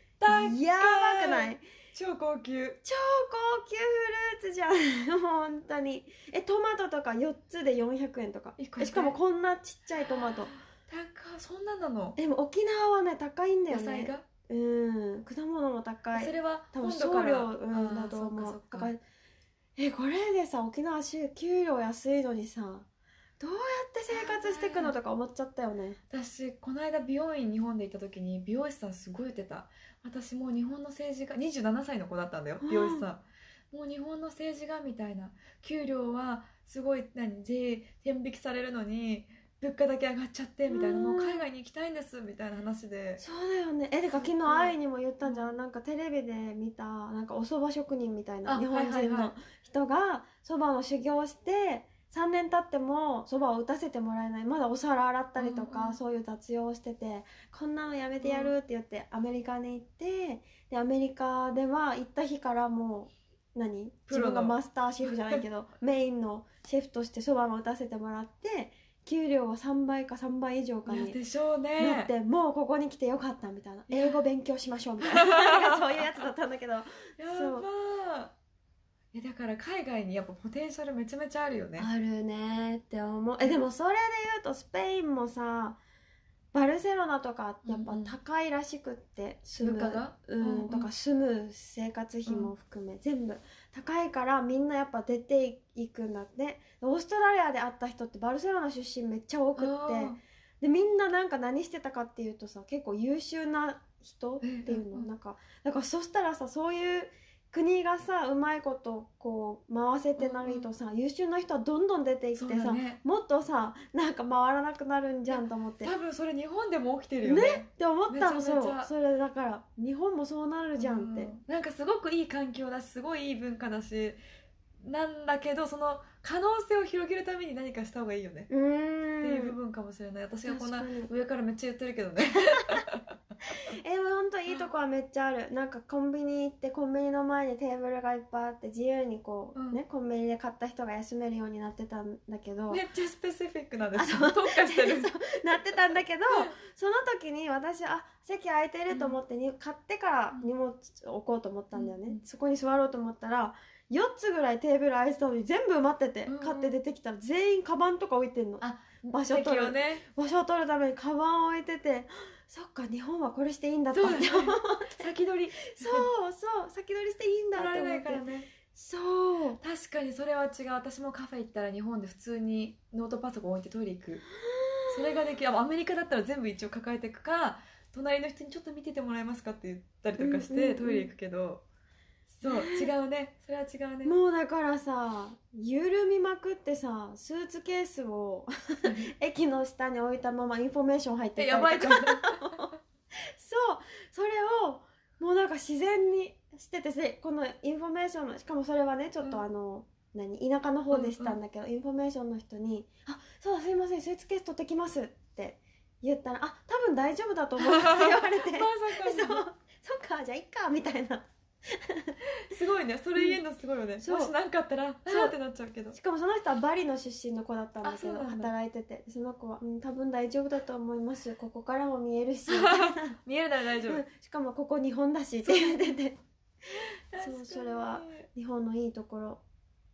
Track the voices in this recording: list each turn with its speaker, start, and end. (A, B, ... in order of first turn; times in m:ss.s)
0:00.2-0:02.8 A
0:00.3-0:01.6 B
0:02.8-0:10.5 B
0:08.6-0:09.2 A
0:10.0-0:12.2 A
0:12.2-0:19.0 B
0:13.7-0:14.2 A
0:16.1-0:18.9 A
0:19.8-0:22.9 B
0:23.4-0:26.0 B
0:24.1-0:24.9 A
0:26.1-0:43.2 A
0:32.6-0:33.1 B
0:40.7-0:41.4 B
0:43.2-1:11.2 B
0:44.1-0:45.5 A
0:48.5-0:49.3 A
0:55.4-0:56.0 A
0:58.2-0:58.5 A
1:04.1-1:05.4 A
1:10.9-1:12.1 A
1:11.8-1:17.7 B
1:13.9-1:14.2 A
1:15.0-1:16.0 A
1:17.2-1:18.4 A
1:19.1-1:21.9 A
1:21.8-1:25.8 B
1:26.5-1:55.9 B
1:27.7-1:28.2 A
1:29.6-1:30.9 A
1:39.6-1:40.2 A
1:44.4-1:45.1 A
1:50.2-1:50.7 A
1:52.4-1:53.0 A
1:55.3-1:58.9 A
1:57.2-2:01.3 B
2:00.8-2:04.2 A
2:04.8-2:08.5 A
2:08.5-2:09.6 B
2:09.2-2:13.2 A
2:10.4-2:11.1 B
2:13.5-2:22.8 B
2:19.6-2:19.8 A
2:22.7-2:25.2 A
2:24.0-2:49.6 B
2:26.3-2:26.6 A
2:28.9-2:29.2 A
2:31.7-2:32.2 A
2:36.3-2:36.8 A
2:38.6-2:40.0 A
2:43.9-2:46.1 A
2:47.6-2:48.5 A
2:49.6-2:54.2 A
2:54.4-2:55.3 B
2:54.9-3:01.6 A
3:00.2-3:01.1 B
3:02.3-3:04.2 A
3:02.4-3:02.9 B
3:04.0-3:32.2 B
3:11.4-3:12.6 A
3:20.9-3:21.4 A
3:27.6-3:29.4 A
3:32.4-3:36.0 A
3:33.2-3:33.4 B
3:34.0-3:34.3 B
3:35.1-3:35.4 B
3:35.9-3:43.2 B
3:37.8-3:38.5 A
3:42.5-3:44.0 A
3:43.9-3:46.2 B
3:45.4-3:45.8 A
3:46.7-3:48.3 A
3:47.2-3:49.4 B